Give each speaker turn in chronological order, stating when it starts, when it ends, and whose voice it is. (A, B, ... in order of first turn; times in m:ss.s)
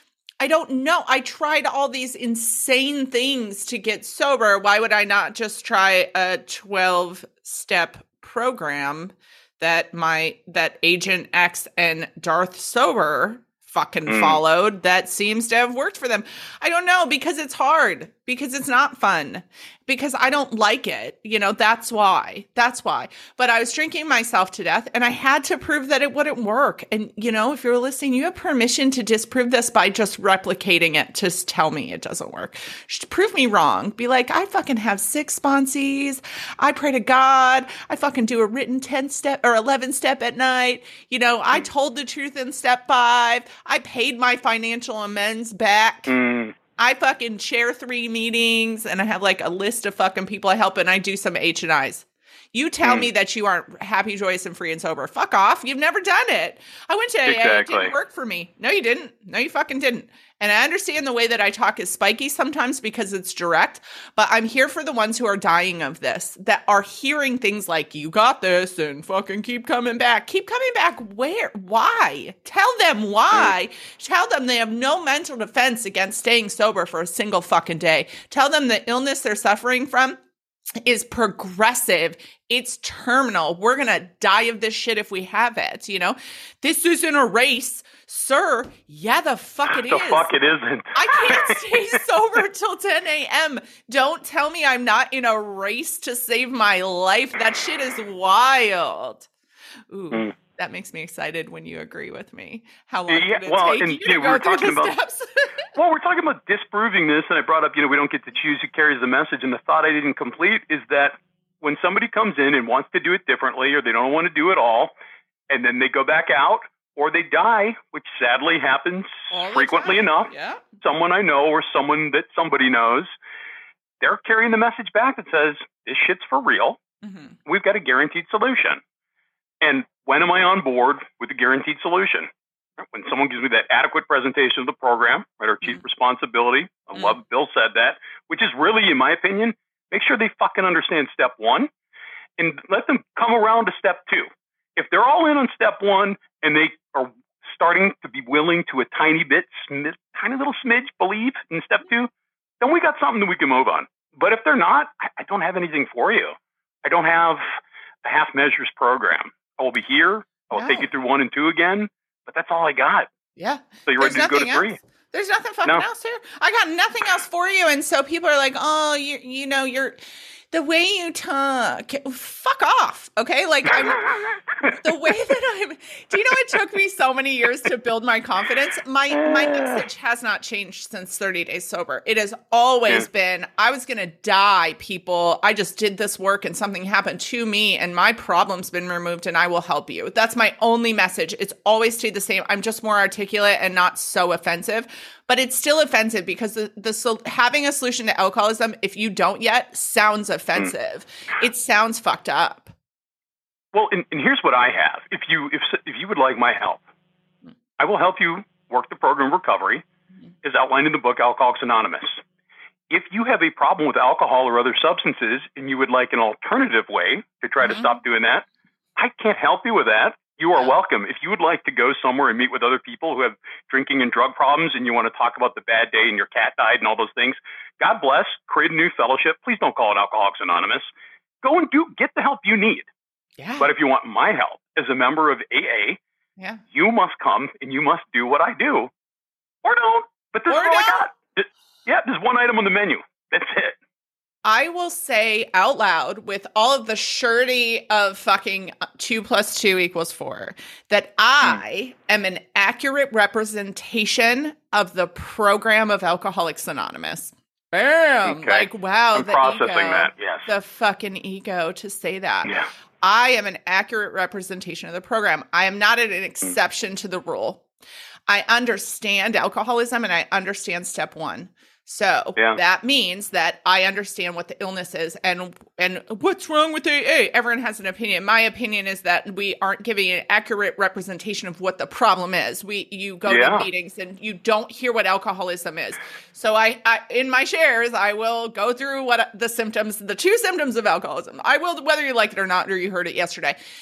0:00.4-0:46.2 A
0:14.1-0:14.4 B
0:46.1-0:46.6 B
0:46.8-1:20.2 A
0:52.8-0:53.1 B
0:57.3-0:57.9 B
1:20.8-1:30.3 A
1:29.8-1:31.6 B
1:31.0-1:39.3 A
1:39.9-1:45.6 A
1:43.1-1:44.9 B
1:45.8-1:54.9 B
1:55.5-2:03.1 B
1:59.3-2:00.8 A
2:04.0-2:06.8 B
2:07.0-2:07.4 A
2:07.5-2:08.8 B
2:09.6-2:21.7 B
2:22.4-2:36.3 B
2:36.8-2:37.4 B
2:38.0-2:43.1 B
2:40.5-2:40.9 A
2:43.4-2:50.0 A
2:43.9-2:44.8 B
2:50.5-3:22.7 A
2:53.7-2:55.1 B
2:59.1-2:59.8 B
3:23.7-3:26.8 B
3:27.8-3:29.8 B
3:30.4-3:32.2 B
3:32.9-3:38.4 B
3:37.6-3:38.0 A
3:39.0-3:50.9 B
3:51.4-3:52.9 B
3:53.4-3:53.7 A
3:53.6-3:56.0 B
3:56.4-3:56.6 A
3:56.7-3:58.9 B
3:59.6-4:03.8 B
4:00.5-4:01.1 A
4:04.4-4:27.6 A
4:18.2-4:20.5 B
4:28.3-4:53.6 A
4:43.3-4:43.7 B